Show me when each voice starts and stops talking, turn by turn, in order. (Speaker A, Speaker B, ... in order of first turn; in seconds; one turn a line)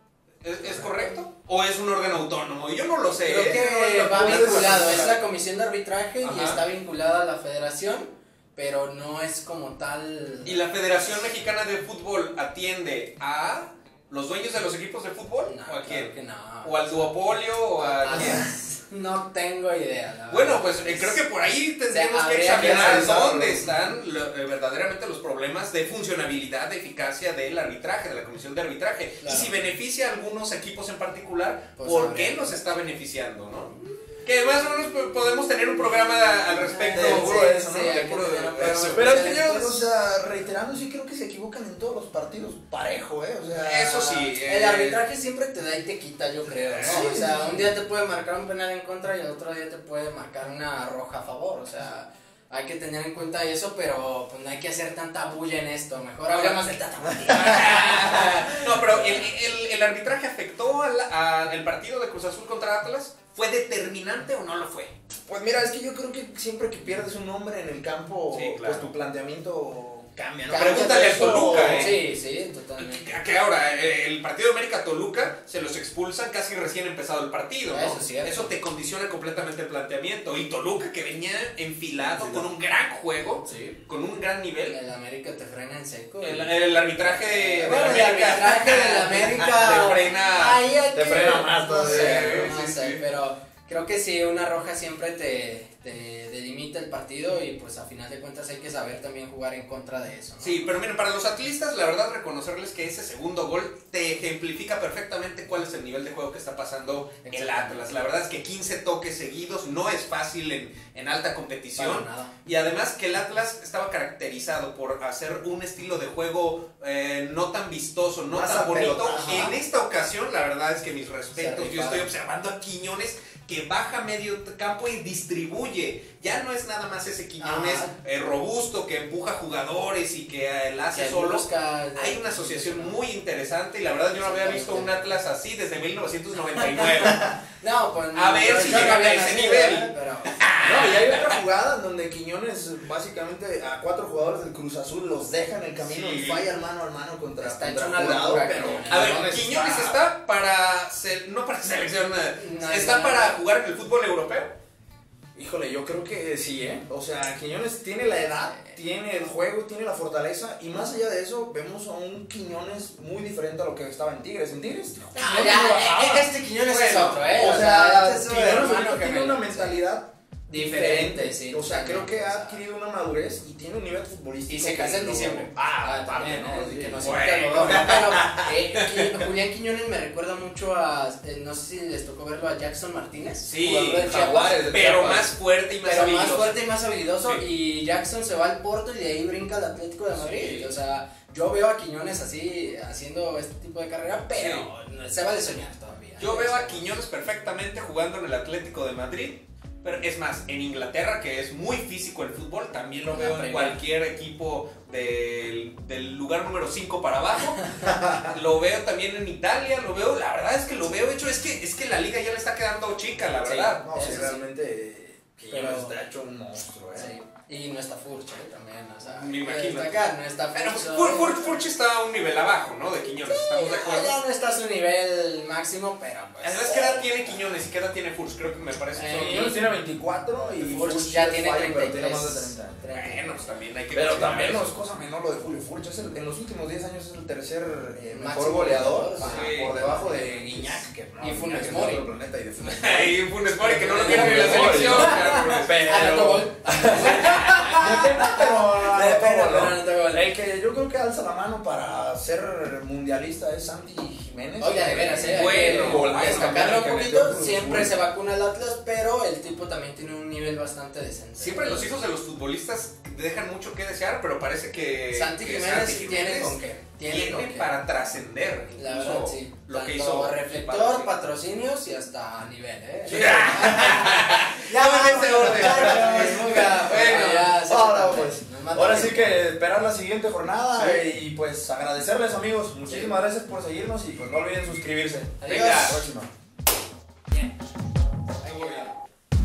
Speaker A: 0.4-5.2
Speaker B: 0.6-1.1
Speaker B: 3.1-10.6
Speaker C: 3.4-5.1
Speaker A: 6.2-6.6
Speaker A: 10.4-16.1
Speaker B: 15.4-17.2
Speaker A: 16.6-18.4
Speaker B: 17.8-21.2
Speaker C: 18.1-18.4
Speaker A: 20.3-33.7
Speaker B: 21.9-23.7
Speaker C: 22.5-23.6
Speaker B: 29.2-29.6
Speaker B: 31.8-32.8
Speaker A: 34.2-39.3
Speaker B: 36.1-39.9
Speaker C: 36.9-38.0
Speaker C: 38.7-44.3
Speaker A: 43.6-45.0
Speaker B: 44.4-59.3
Speaker A: 46.6-47.1
Speaker C: 46.8-47.7
Speaker A: 56.3-56.7
Speaker A: 57.2-64.9
Speaker C: 65.3-71.9
Speaker A: 68.3-68.9
Speaker B: 70.5-73.2
Speaker A: 70.5-72.0
Speaker A: 72.8-84.8
Speaker B: 77.7-78.5
Speaker C: 82.2-82.5
Speaker B: 83.5-83.8
Speaker B: 84.7-86.5
Speaker A: 86.2-90.6
Speaker B: 87.3-100.7
Speaker C: 90.9-92.6
Speaker A: 91.8-93.0
Speaker A: 100.4-137.2
Speaker B: 107.2-107.9
Speaker B: 111.8-112.3
Speaker C: 118.3-119.5
Speaker B: 119.0-119.5
Speaker B: 121.3-122.1
Speaker B: 127.4-127.9
Speaker B: 130.9-133.0
Speaker B: 134.2-135.1
Speaker B: 136.6-140.4
Speaker A: 138.1-141.4
Speaker C: 140.6-150.0
Speaker A: 145.8-146.5
Speaker B: 147.4-149.3
Speaker A: 148.9-154.5
Speaker B: 152.4-153.4
Speaker C: 155.3-166.3
Speaker B: 158.4-158.8
Speaker B: 165.1-169.8
Speaker A: 166.7-167.3
Speaker C: 167.2-178.5
Speaker B: 170.5-172.6
Speaker B: 174.5-185.0
Speaker A: 177.0-179.3
Speaker A: 183.4-184.1
Speaker C: 183.9-185.3
Speaker A: 184.7-186.6
Speaker B: 185.8-197.0
Speaker A: 190.1-190.7
Speaker A: 194.3-194.7
Speaker A: 196.2-213.8
Speaker B: 203.0-203.8
Speaker C: 207.9-208.3
Speaker B: 213.4-214.4
Speaker C: 213.7-217.1
Speaker B: 215.5-216.0
Speaker B: 216.9-221.7
Speaker A: 219.1-224.2
Speaker B: 223.2-227.4
Speaker A: 226.4-229.5
Speaker B: 228.9-229.7
Speaker C: 229.1-232.9
Speaker B: 230.6-233.4
Speaker A: 232.9-234.8
Speaker C: 233.9-243.2
Speaker B: 238.1-242.1
Speaker A: 239.2-239.8
Speaker A: 242.6-245.9
Speaker B: 243.5-250.3
Speaker C: 244.0-257.9
Speaker A: 247.0-247.8
Speaker B: 254.6-262.1
Speaker A: 255.3-256.9
Speaker A: 261.4-271.2
Speaker B: 265.1-267.7
Speaker B: 268.8-279.4
Speaker C: 273.1-274.0
Speaker A: 273.1-277.5
Speaker C: 275.3-286.3
Speaker B: 280.8-281.2
Speaker B: 282.9-283.1
Speaker B: 285.4-286.0
Speaker A: 285.5-286.0
Speaker B: 288.4-288.9
Speaker A: 288.5-288.9